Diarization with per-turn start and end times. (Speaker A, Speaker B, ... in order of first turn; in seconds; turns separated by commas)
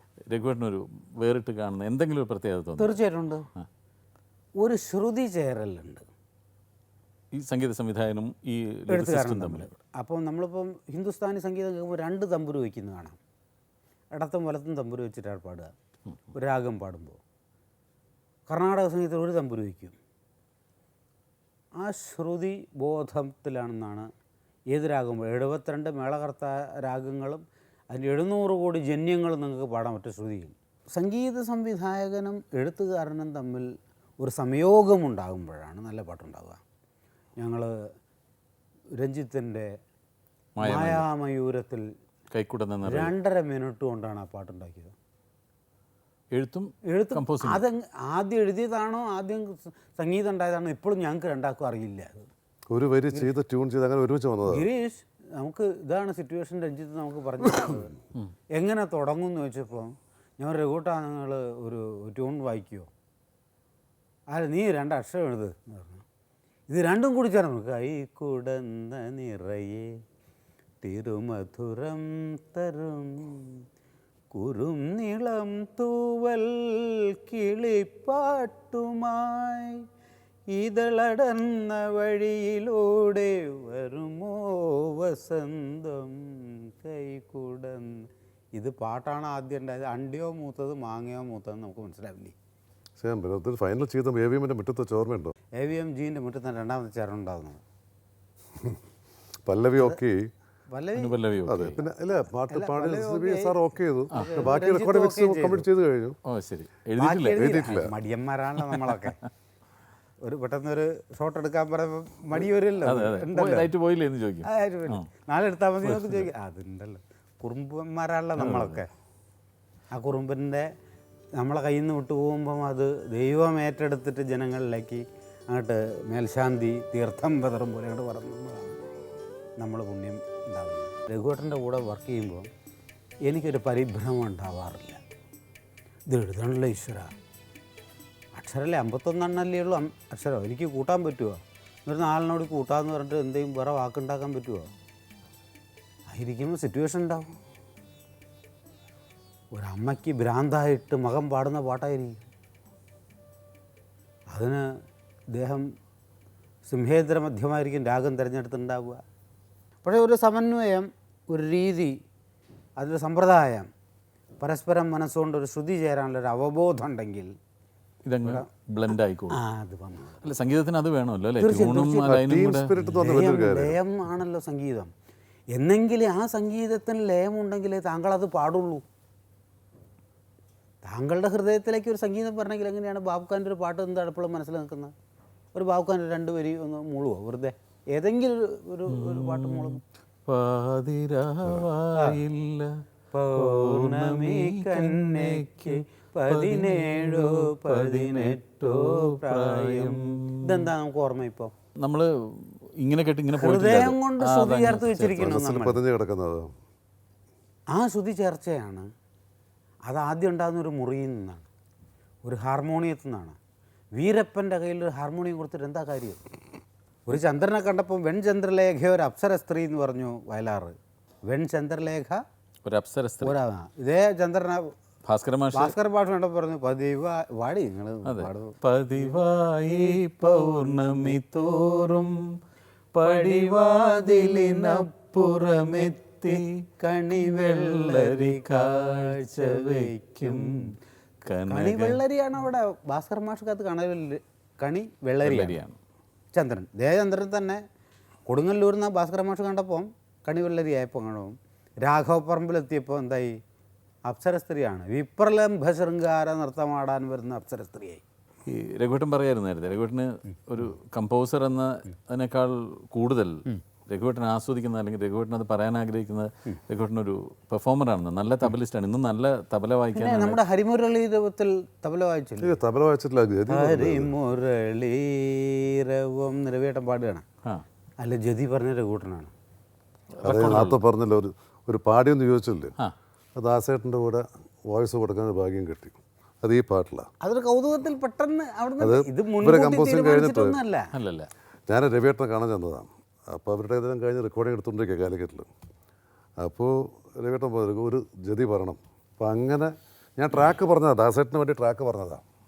Speaker A: 0.3-3.0, Speaker B: 2.8-3.5, Speaker B: 4.6-6.0, Speaker A: 7.3-9.7, Speaker B: 8.9-13.2, Speaker B: 14.1-15.7, Speaker B: 16.3-17.2, Speaker B: 18.5-20.0, Speaker B: 21.8-24.1, Speaker B: 24.7-33.7, Speaker B: 34.2-36.6, Speaker B: 37.4-37.7, Speaker B: 39.0-39.7, Speaker A: 40.6-41.0, Speaker B: 40.6-41.8, Speaker A: 42.3-43.1, Speaker B: 42.9-44.9, Speaker A: 46.3-47.6, Speaker B: 46.9-52.3, Speaker C: 52.7-54.7, Speaker B: 54.5-57.9, Speaker B: 58.5-62.9, Speaker B: 64.3-66.0, Speaker B: 66.7-69.8, Speaker B: 70.8-73.6, Speaker B: 74.3-79.8, Speaker B: 80.5-92.3, Speaker C: 93.0-95.3, Speaker B: 95.6-97.6, Speaker C: 99.5-100.3, Speaker B: 100.7-101.2, Speaker A: 101.0-101.8, Speaker C: 101.5-106.2, Speaker B: 101.8-105.7, Speaker A: 104.2-104.4, Speaker A: 106.3-107.5, Speaker B: 107.0-109.2, Speaker C: 107.3-107.9, Speaker A: 108.6-109.1, Speaker B: 110.2-113.7, Speaker A: 112.8-115.0, Speaker B: 114.5-118.9, Speaker A: 115.8-116.2, Speaker A: 118.4-118.8, Speaker B: 119.9-120.7, Speaker B: 121.4-128.8, Speaker B: 129.6-132.5, Speaker B: 133.3-135.0, Speaker B: 136.1-137.1, Speaker B: 138.3-144.7, Speaker B: 146.1-147.3, Speaker B: 149.5-152.2, Speaker B: 154.3-154.6, Speaker B: 155.3-155.7, Speaker B: 156.7-159.0, Speaker B: 159.8-161.9, Speaker B: 162.8-163.7, Speaker B: 164.4-167.3, Speaker A: 168.0-169.4, Speaker B: 169.3-170.2, Speaker A: 170.2-173.0, Speaker B: 171.4-172.2, Speaker C: 172.1-173.8, Speaker B: 172.9-174.9, Speaker B: 175.5-178.8, Speaker B: 180.8-184.9, Speaker B: 185.5-189.8, Speaker A: 188.9-192.7, Speaker B: 193.1-201.5, Speaker A: 193.4-200.4, Speaker A: 201.8-205.3, Speaker B: 203.3-205.8, Speaker C: 205.2-206.5, Speaker B: 207.7-208.9, Speaker B: 209.9-211.5, Speaker B: 212.2-213.3, Speaker B: 213.9-216.2, Speaker B: 217.1-220.7, Speaker B: 221.3-222.2, Speaker A: 222.6-223.3, Speaker B: 223.2-224.7, Speaker A: 225.1-225.7, Speaker B: 225.5-228.5, Speaker A: 228.0-232.2, Speaker A: 232.9-236.5, Speaker B: 233.0-240.6, Speaker A: 237.1-240.6, Speaker A: 241.2-242.0, Speaker B: 241.5-245.6, Speaker A: 245.2-245.8, Speaker B: 246.3-247.6, Speaker B: 248.3-253.4, Speaker B: 254.1-258.0, Speaker A: 258.4-270.4, Speaker B: 269.9-272.6, Speaker C: 272.4-274.1, Speaker B: 273.5-277.2, Speaker B: 278.0-279.3, Speaker A: 280.2-280.8, Speaker C: 280.2-282.7, Speaker C: 283.4-287.1, Speaker B: 287.2-290.9, Speaker C: 288.8-290.6, Speaker A: 290.9-291.3, Speaker C: 291.7-295.5, Speaker C: 296.4-302.2